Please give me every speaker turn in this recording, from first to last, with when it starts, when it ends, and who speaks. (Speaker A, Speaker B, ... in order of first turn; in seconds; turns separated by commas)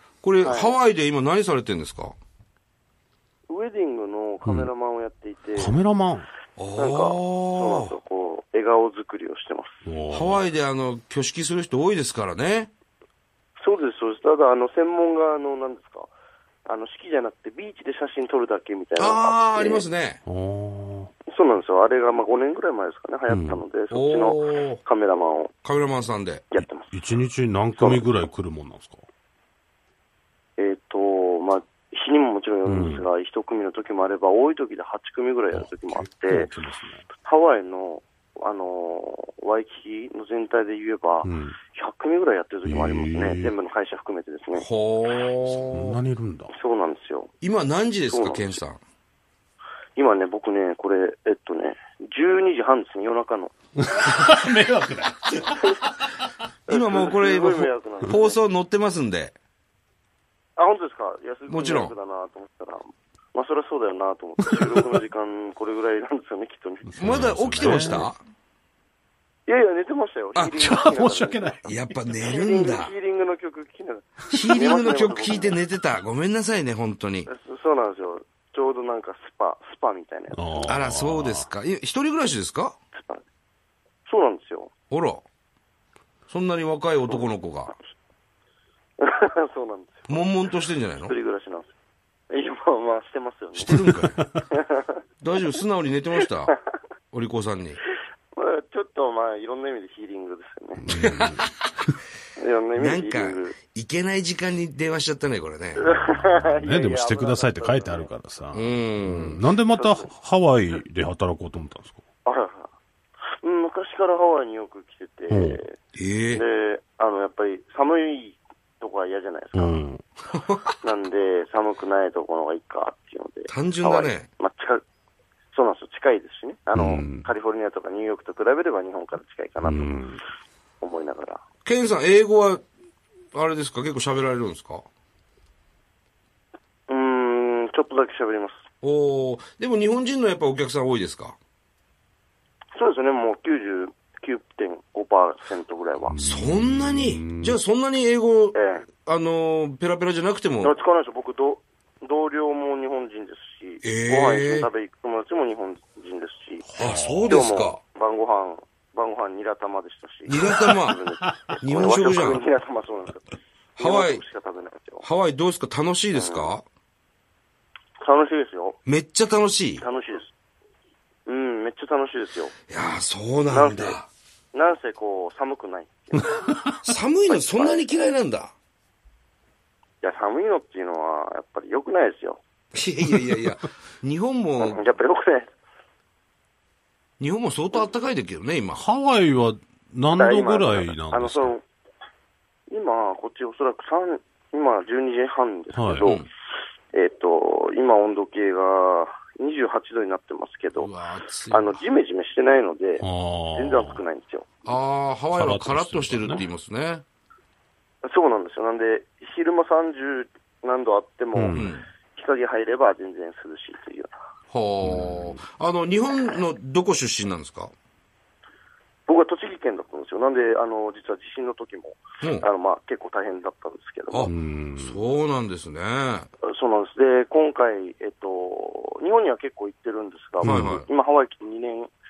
Speaker A: 0.2-2.1, Speaker B: 0.4-0.7, Speaker B: 3.5-5.8, Speaker C: 4.4-4.7, Speaker C: 5.5-6.3, Speaker A: 6.6-8.0, Speaker B: 6.8-9.8, Speaker C: 9.8-10.4, Speaker A: 10.1-12.7, Speaker B: 13.6-16.1, Speaker B: 16.6-19.8, Speaker A: 19.0-20.2, Speaker C: 20.2-21.1, Speaker B: 21.3-25.5, Speaker C: 23.3-23.6, Speaker A: 23.9-24.8, Speaker A: 25.6-26.5, Speaker B: 26.5-26.9, Speaker C: 26.9-29.0, Speaker B: 27.8-28.1, Speaker B: 30.6-36.5, Speaker C: 32.6-33.0, Speaker C: 35.5-37.0, Speaker B: 37.2-44.6, Speaker C: 41.2-41.5, Speaker C: 42.6-43.5, Speaker A: 44.5-46.0, Speaker C: 45.7-46.5, Speaker B: 46.5-47.3, Speaker A: 47.4-48.8, Speaker B: 48.1-48.6, Speaker B: 50.0-53.5, Speaker C: 53.8-56.0, Speaker B: 56.7-58.4, Speaker A: 56.7-59.3, Speaker B: 60.5-67.4, Speaker A: 61.5-61.9, Speaker C: 64.4-64.8, Speaker C: 66.9-68.1, Speaker A: 67.0-68.2, Speaker B: 69.5-71.6, Speaker C: 70.5-72.0, Speaker A: 71.7-72.9, Speaker B: 72.2-75.6, Speaker A: 74.3-77.3, Speaker B: 77.3-80.7, Speaker C: 80.3-81.5, Speaker A: 80.7-82.8, Speaker B: 82.9-83.2, Speaker B: 84.0-84.7, Speaker A: 84.9-85.2, Speaker A: 86.3-87.7, Speaker B: 89.0-90.5, Speaker A: 90.1-91.1, Speaker B: 91.0-91.7, Speaker B: 92.3-93.9, Speaker A: 93.6-94.2, Speaker C: 93.7-94.4, Speaker B: 94.5-95.0, Speaker A: 95.2-96.5, Speaker A: 97.1-97.8, Speaker B: 98.3-100.9, Speaker C: 100.8-101.9, Speaker A: 100.9-101.5, Speaker B: 102.4-103.5, Speaker A: 102.8-105.9, Speaker B: 105.8-108.1, Speaker C: 106.1-112.0, Speaker A: 108.5-109.4, Speaker B: 109.7-110.1, Speaker B: 112.2-112.7, Speaker B: 113.4-115.8, Speaker C: 115.3-115.6, Speaker A: 115.9-116.4, Speaker B: 116.3-119.8, Speaker C: 119.5-120.1, Speaker A: 120.3-120.7, Speaker B: 120.8-124.8, Speaker A: 123.5-124.3, Speaker B: 125.5-130.0, Speaker C: 126.7-127.3, Speaker C: 129.6-130.2, Speaker B: 130.8-131.4, Speaker A: 131.6-132.6, Speaker A: 133.3-134.8, Speaker B: 136.9-138.6, Speaker A: 138.8-141.4, Speaker B: 142.7-146.2, Speaker C: 146.1-147.6, Speaker A: 146.2-150.7, Speaker B: 148.5-148.9, Speaker B: 150.6-165.0, Speaker A: 153.8-154.7, Speaker C: 156.7-157.5, Speaker A: 156.8-157.8, Speaker A: 160.3-161.0, Speaker A: 161.6-162.4, Speaker A: 163.8-164.2, Speaker A: 165.0-166.6, Speaker B: 166.1-166.5, Speaker B: 168.0-168.8, Speaker A: 168.8-169.8, Speaker B: 169.8-170.3, Speaker B: 171.2-172.5, Speaker A: 172.7-174.1, Speaker B: 173.5-174.0, Speaker B: 174.5-176.8, Speaker C: 176.4-176.8, Speaker A: 176.8-178.5, Speaker B: 177.3-178.0, Speaker B: 180.0-182.4, Speaker A: 182.7-184.8, Speaker B: 184.6-185.5, Speaker A: 187.2-188.8, Speaker C: 188.7-191.5, Speaker B: 190.2-191.6, Speaker B: 192.7-196.2, Speaker C: 195.7-196.1, Speaker A: 196.0-196.3, Speaker B: 196.9-200.9, Speaker A: 200.8-201.8, Speaker B: 201.5-204.7, Speaker C: 203.0-204.0, Speaker A: 204.7-207.0, Speaker C: 205.3-206.4, Speaker B: 208.0-214.1, Speaker C: 211.3-211.7, Speaker A: 211.5-211.8, Speaker A: 214.5-217.7, Speaker C: 214.8-215.4, Speaker B: 219.1-224.3, Speaker A: 222.2-222.4, Speaker A: 224.1-226.3, Speaker C: 224.2-225.0, Speaker B: 226.4-231.9, Speaker C: 230.4-230.8, Speaker A: 230.4-230.8